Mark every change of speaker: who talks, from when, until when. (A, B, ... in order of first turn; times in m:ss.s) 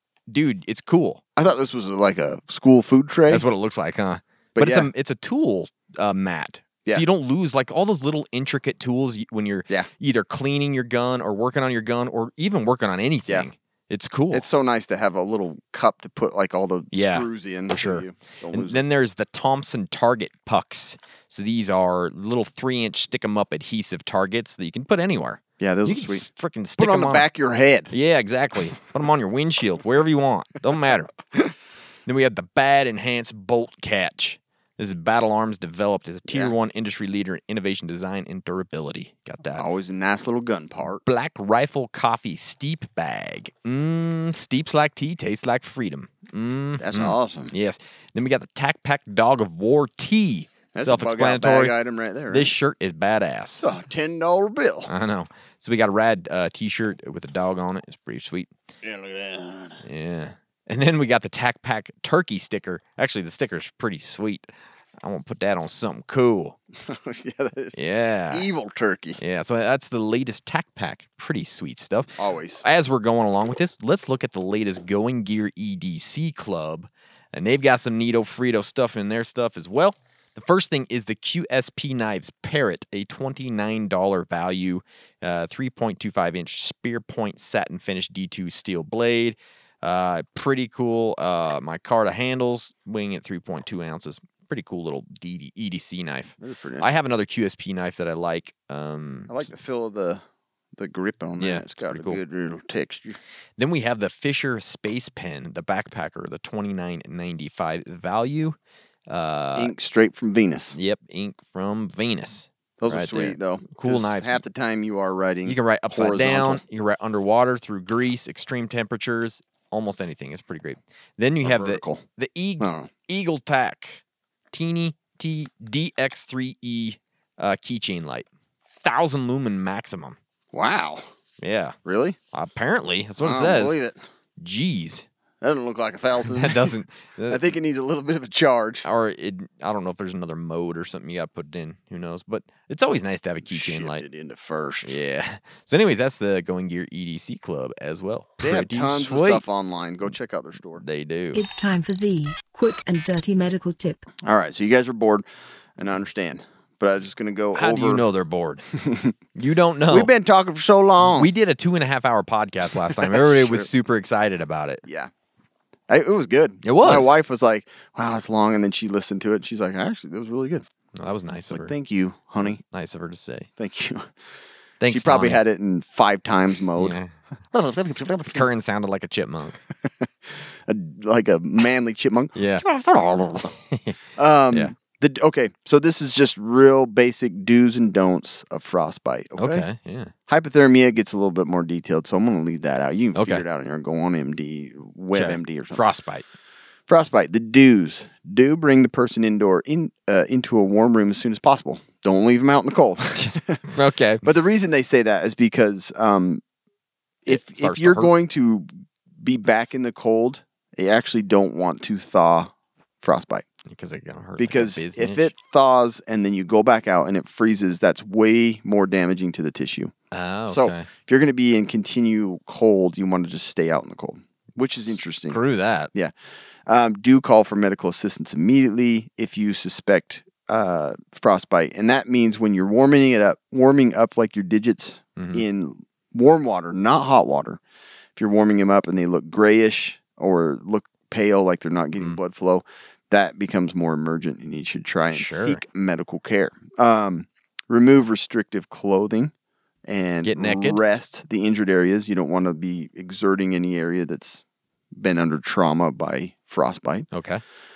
0:00.3-0:01.2 A
0:01.4-0:03.4 B
0:03.3-0:14.4 A
0:04.6-0:04.9 B
0:14.3-0:18.8 B
0:16.9-0:27.3 A
0:25.6-0:27.9 B
0:27.9-0:31.1 A
0:32.0-0:39.6 A
0:36.3-0:36.5 B
0:39.6-0:41.0 B
0:41.0-0:51.7 A
0:46.8-0:47.5 B
0:50.7-0:52.5 B
0:52.3-0:53.6 A
0:53.6-0:54.9 B
0:54.9-0:58.5 A
0:58.8-0:59.8 B
0:59.8-1:04.5 A
1:05.0-1:06.6 A
1:06.8-1:07.8 B
1:07.7-1:08.5 A
1:08.3-1:09.2 B
1:09.2-1:39.5 A
1:12.2-1:12.6 B
1:36.4-1:36.9 B
1:39.3-1:40.2 B
1:40.8-1:43.2 B
1:41.4-1:42.2 A
1:43.6-1:48.6 A
1:49.1-1:49.7 A
1:49.5-1:50.8 B
1:50.7-1:54.4 A
1:52.8-1:56.6 B
1:55.4-2:08.3 A
2:01.4-2:02.0 B
2:02.6-2:02.9 B
2:08.8-2:10.2 A
2:10.5-2:11.0 B
2:11.4-2:11.8 A
2:11.8-2:12.2 B
2:12.3-2:13.8 A
2:13.2-2:14.0 B
2:14.4-2:15.0 A
2:15.4-2:16.7 B
2:16.2-2:17.4 A
2:17.3-2:18.8 B
2:18.8-2:24.0 A
2:23.5-2:25.0 B
2:24.8-2:29.4 A
2:28.4-2:30.8 B
2:30.8-2:31.4 A
2:31.3-2:34.1 C
2:34.2-2:35.2 B
2:35.8-2:38.0 B
2:37.5-2:38.6 A
2:38.7-2:39.1 B
2:39.3-2:40.1 A
2:39.9-2:41.3 B
2:41.0-2:44.8 A
2:43.0-2:43.7 B
2:44.8-2:45.1 B
2:45.9-2:50.6 B
2:46.6-2:47.1 A
2:51.0-2:51.7 A
2:51.5-2:52.6 B
2:52.4-2:53.5 A
2:53.6-2:54.1 B
2:54.8-2:55.4 A
2:54.9-2:57.0 B
2:56.8-2:57.1 A
2:57.5-2:58.4 B
2:58.3-2:59.6 A
2:59.8-3:03.5 B
3:02.3-3:02.6 A
3:03.6-3:04.0 A
3:04.2-3:09.7 B
3:09.4-3:10.1 A
3:10.3-3:15.8 B
3:13.1-3:13.4 A
3:15.1-3:16.2 A
3:16.9-3:23.6 B
3:23.2-3:24.3 A
3:24.2-3:26.4 B
3:27.2-3:28.7 B
3:27.3-3:28.1 A
3:29.2-3:33.4 B
3:33.7-3:35.3 A
3:34.4-3:39.9 B
3:40.1-3:40.9 A
3:40.5-3:45.4 B
3:45.3-3:45.9 A
3:46.6-3:57.6 B
3:55.2-3:55.4 A
3:58.2-4:09.3 B
4:05.1-4:05.6 A
4:09.8-4:14.4 B
4:10.2-4:10.8 A
4:14.9-4:17.1 B
4:17.1-4:17.4 A